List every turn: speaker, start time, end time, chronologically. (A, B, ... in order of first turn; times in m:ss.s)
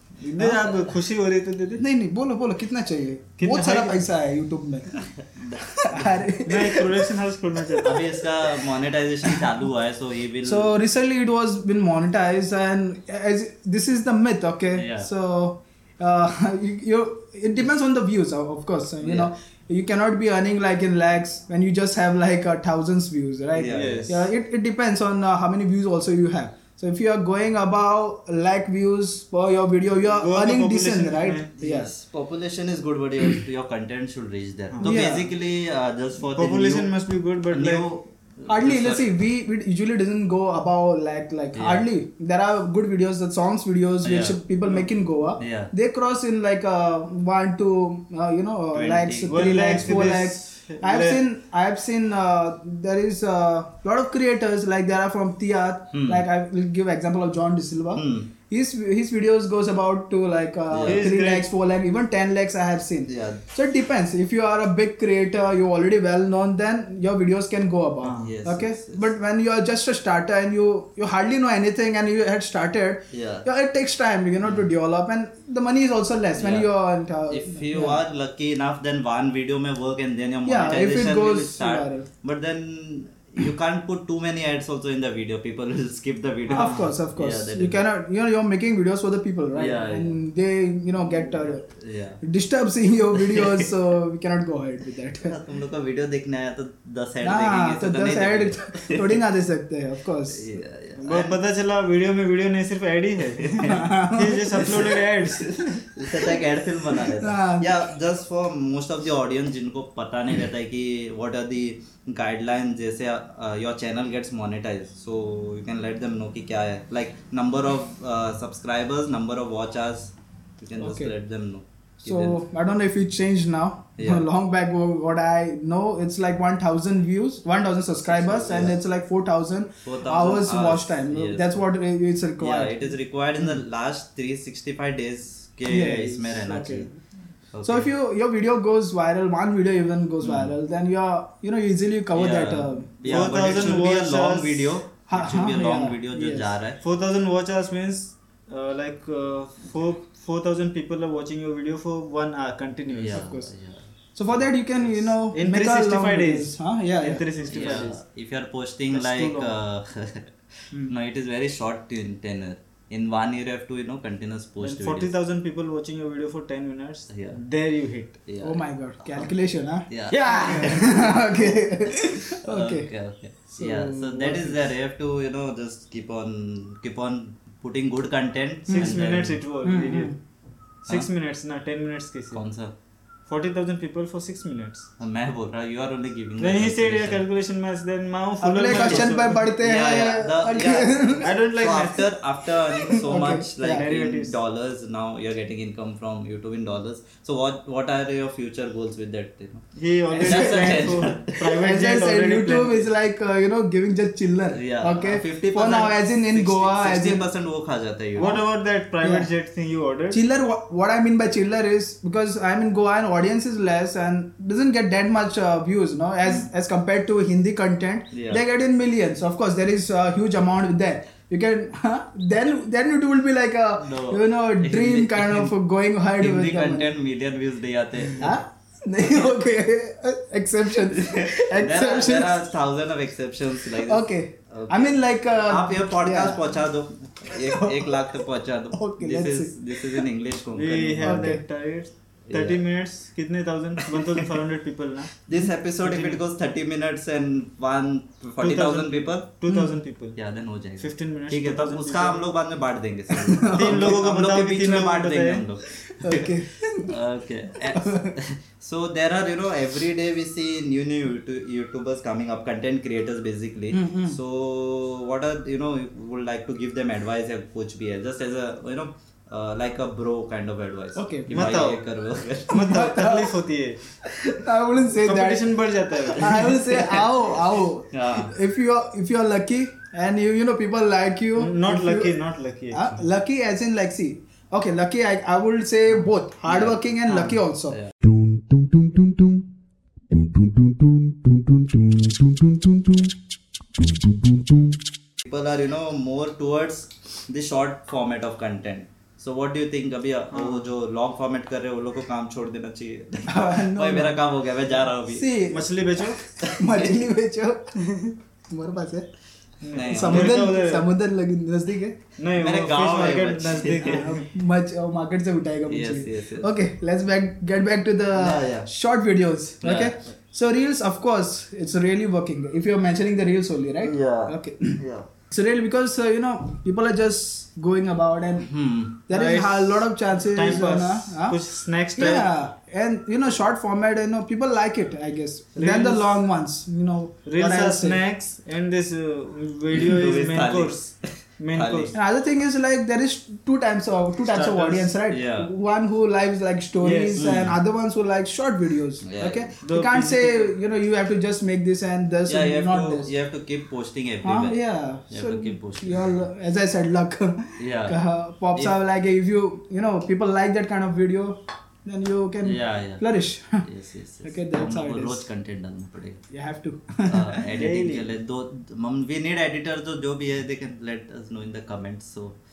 0:00.2-0:01.8 A
0:00.4-0:00.8 B
0:01.8-0:05.0 B
0:03.4-0:04.0 A
0:05.0-0:06.2 C
0:05.6-0:07.1 B
0:06.4-0:08.0 A
0:07.8-0:10.7 C
0:10.4-0:31.9 B
0:14.7-0:15.1 C
0:19.0-0:19.3 C
0:23.5-0:24.2 C
0:23.7-0:24.3 A
0:30.2-0:31.5 A
0:31.6-0:36.9 C
0:34.8-0:35.3 B
0:36.3-0:37.8 A
0:37.5-0:39.1 C
0:38.5-1:18.0 B
0:41.6-0:41.8 C
0:44.0-0:44.4 C
0:45.4-0:45.7 C
0:48.7-0:50.0 C
0:49.3-0:51.2 A
0:55.9-0:56.2 C
0:58.0-0:58.3 C
1:00.7-1:01.1 C
1:00.8-1:01.5 A
1:03.1-1:03.4 C
1:08.0-1:08.3 A
1:08.2-1:09.1 C
1:13.1-1:13.5 C
1:14.4-1:14.7 C
1:16.4-1:16.7 C
1:17.3-1:27.8 C
1:20.4-1:22.1 B
1:26.5-1:26.9 A
1:26.5-1:31.6 B
1:29.5-1:30.2 C
1:31.1-1:32.2 C
1:32.2-1:35.4 B
1:33.2-1:33.7 C
1:35.2-1:39.2 C
1:37.2-1:40.6 B
1:40.3-1:41.4 C
1:41.0-1:45.7 A
1:43.6-1:44.9 B
1:45.8-2:02.4 C
1:47.1-1:47.7 B
2:00.8-2:01.1 B
2:02.0-2:13.0 B
2:04.0-2:04.3 C
2:08.0-2:08.8 C
2:09.8-2:11.6 C
2:12.4-2:16.9 C
2:15.7-2:17.0 B
2:17.5-2:17.9 C
2:17.6-2:23.8 B
2:20.2-2:20.5 C
2:22.1-2:26.8 C
2:23.0-2:24.8 A
2:25.1-2:26.5 B
2:26.8-2:33.2 A
2:32.9-2:35.0 C
2:33.1-2:33.5 B
2:34.1-2:37.9 B
2:35.3-2:37.9 A
2:37.5-2:40.3 C
2:38.9-2:39.5 A
2:40.9-2:45.1 C
2:44.6-2:48.2 A
2:47.1-2:47.4 C
2:48.3-2:49.3 C
2:48.4-2:52.9 B
2:49.9-2:59.4 C
2:50.1-2:51.0 A
2:53.5-2:54.6 B
2:58.7-2:59.0 B
2:58.7-3:00.1 A
2:59.6-3:00.2 B
3:00.8-3:02.4 A
3:02.3-3:02.7 C
3:03.3-3:04.9 A
3:05.0-3:07.2 C
3:06.4-3:09.4 A
3:08.4-3:11.3 B
3:08.7-3:19.7 C
3:11.2-3:12.1 A
3:12.7-3:13.9 B
3:13.6-3:14.4 A
3:19.8-3:22.9 A
3:20.1-3:21.0 B
3:20.2-3:21.6 C
3:21.6-3:27.3 B
3:24.5-3:28.4 C
3:28.2-3:30.2 A
3:29.0-3:29.3 B
3:30.1-3:46.9 B
3:38.1-3:38.4 C
3:43.8-3:45.5 C
3:46.2-3:48.4 C
3:48.2-3:52.4 B
3:50.9-4:01.3 C
3:53.7-3:56.4 B
3:57.3-3:57.9 B
3:58.8-3:59.8 B
4:00.6-4:05.1 A
4:01.0-4:01.4 B
4:02.3-4:02.6 C
4:05.2-4:09.3 C
4:05.8-4:06.2 A
4:08.4-4:10.2 A
4:09.5-4:09.8 B
4:10.2-4:16.3 C
4:10.8-4:12.2 A
4:13.2-4:14.0 B
4:13.5-4:15.4 A
4:15.9-4:16.9 B
4:16.9-4:32.6 C
4:17.7-4:18.1 B
4:23.7-4:24.2 B
4:31.0-4:31.6 B
4:31.3-4:31.8 A
4:32.5-4:33.8 A
4:32.5-4:33.4 B
4:34.0-4:42.2 B
4:34.9-4:37.0 A
4:37.2-4:38.3 C
4:41.4-4:42.8 A
4:42.7-4:47.8 B
4:45.9-4:48.0 C
4:48.0-4:49.4 D
4:50.1-4:53.1 D
4:53.8-4:54.8 D
4:55.2-5:05.3 C
5:00.3-5:00.7 A
5:03.3-5:04.2 B
5:05.1-5:09.1 B
5:05.5-5:06.2 A
5:06.4-5:07.0 C
5:09.6-5:10.9 A
5:09.7-5:10.4 C
5:09.9-5:12.0 B
5:12.2-5:14.3 A
5:12.4-5:14.1 C
5:13.8-5:28.5 B
5:15.7-5:16.5 C
5:18.2-5:18.7 C
5:19.6-5:20.0 C
5:23.8-5:25.1 C
5:28.4-5:29.0 C
5:29.1-5:31.4 B
5:29.1-5:32.3 A
5:32.0-5:38.0 B
5:35.6-5:36.1 A
5:37.3-5:41.9 A
5:39.7-5:42.0 C
5:41.9-5:53.1 B
5:44.3-5:44.9 A
5:45.1-5:45.5 C
5:46.8-5:47.4 A
5:47.2-5:47.6 C
5:49.0-5:49.6 C
5:49.6-5:50.6 A
5:52.3-5:54.6 C
5:54.2-6:03.7 B
5:55.1-5:56.3 C
5:57.6-5:58.0 C
6:02.4-6:03.0 C
6:03.6-6:06.2 C
6:04.2-6:05.2 B
6:06.3-6:07.4 B
6:07.1-6:12.4 C
6:07.6-6:08.1 A